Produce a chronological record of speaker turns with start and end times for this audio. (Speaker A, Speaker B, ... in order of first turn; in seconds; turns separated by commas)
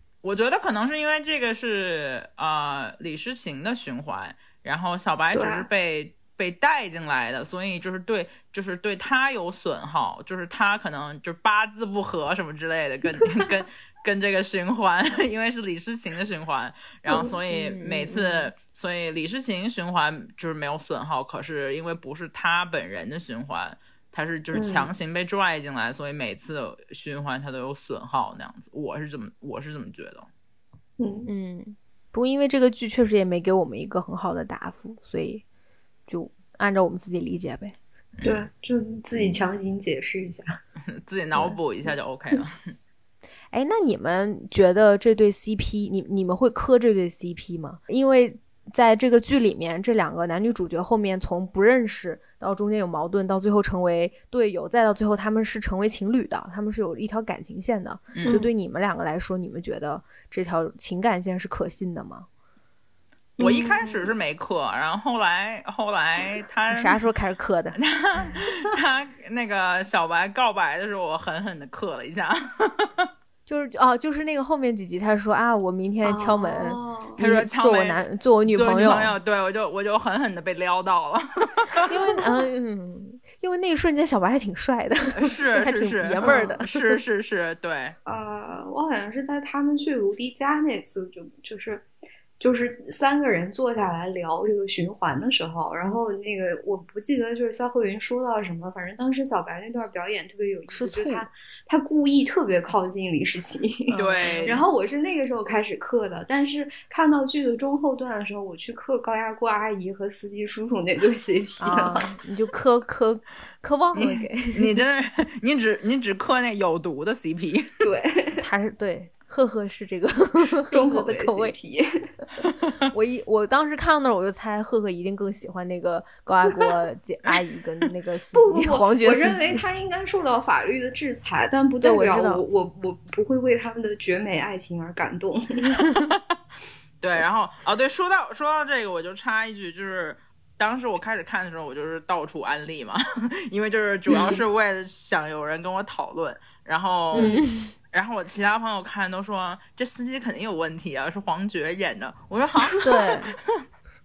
Speaker A: 0.2-30.3, Speaker B: 5.3-5.7, Speaker B: 17.1-17.4, Speaker C: 17.5-18.5, Speaker B: 24.5-24.9, Speaker B: 31.0-31.3, Speaker C: 31.3-35.4, Speaker C: 36.1-37.8, Speaker A: 38.2-38.4, Speaker B: 38.2-40.6, Speaker A: 40.9-42.8, Speaker C: 43.5-62.3, Speaker A: 58.1-58.4, Speaker B: 58.2-58.5, Speaker B: 63.4-64.1, Speaker A: 63.4-67.0, Speaker C: 66.7-67.8, Speaker A: 67.8-73.1, Speaker C: 73.5-79.2, Speaker B: 76.0-77.2, Speaker A: 77.2-81.9, Speaker C: 81.9-87.0, Speaker A: 85.1-88.0, Speaker B: 86.2-86.5, Speaker B: 88.1-91.9, Speaker B: 92.4-112.1, Speaker C: 100.7-101.3, Speaker C: 103.9-104.6, Speaker A: 104.0-104.7, Speaker C: 111.6-114.8, Speaker A: 114.0-117.7, Speaker B: 117.8-118.4, Speaker C: 118.4-121.5, Speaker B: 120.7-122.1, Speaker C: 122.9-129.6, Speaker B: 128.3-135.8, Speaker C: 131.8-132.4, Speaker C: 135.8-136.1, Speaker A: 137.0-153.6, Speaker B: 144.1-144.4, Speaker C: 147.1-147.7, Speaker B: 147.1-147.4, Speaker C: 152.8-153.4